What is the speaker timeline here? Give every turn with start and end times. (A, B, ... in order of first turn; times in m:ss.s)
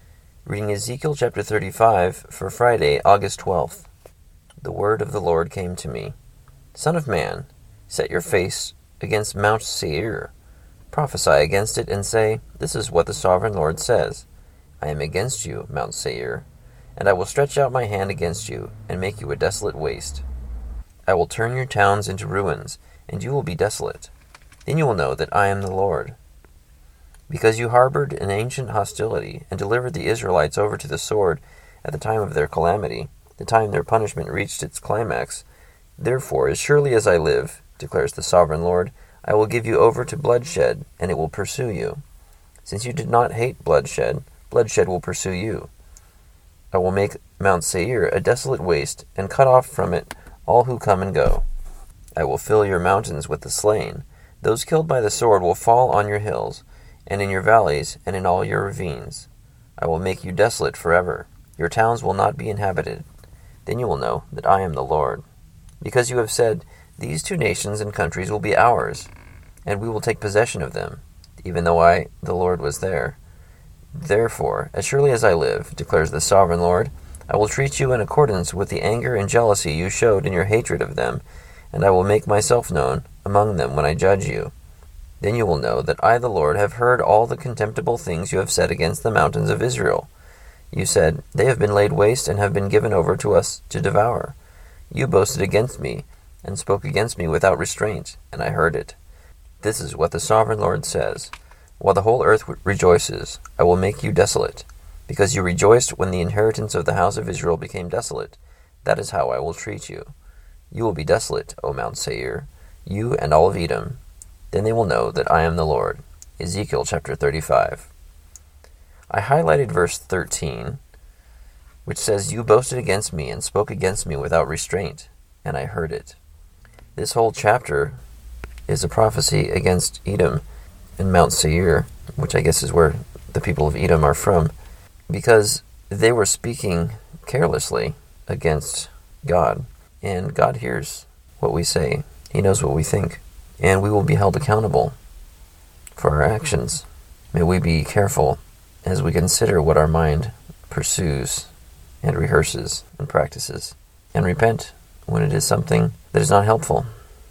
0:00.4-0:03.9 A
0:04.6-0:06.1 A
0:06.7-0:10.3 A
0:10.9-0:14.2 A
0:14.8-0:20.2 A
0:21.1-0:24.1 A
0:24.6-0:26.2 A
0:27.3-0:35.4 A
0:36.0-0:42.0 A
0:42.6-0:45.7 A
0:46.7-0:51.4 A
0:52.2-1:03.0 A
1:03.6-1:05.2 A
1:05.8-1:09.1 A
1:09.6-1:13.2 A
1:13.9-1:24.5 A
1:25.2-1:30.1 A
1:30.7-1:34.3 A
1:34.9-1:39.0 A
1:39.6-1:50.1 A
1:50.7-1:54.0 A
1:54.5-1:57.9 A
1:59.1-2:00.8 A
2:01.8-2:06.2 A
2:07.0-2:08.0 A
2:08.7-2:10.4 A
2:11.0-2:14.5 A
2:15.1-2:24.9 A
2:26.0-2:31.5 A
2:32.0-2:36.9 A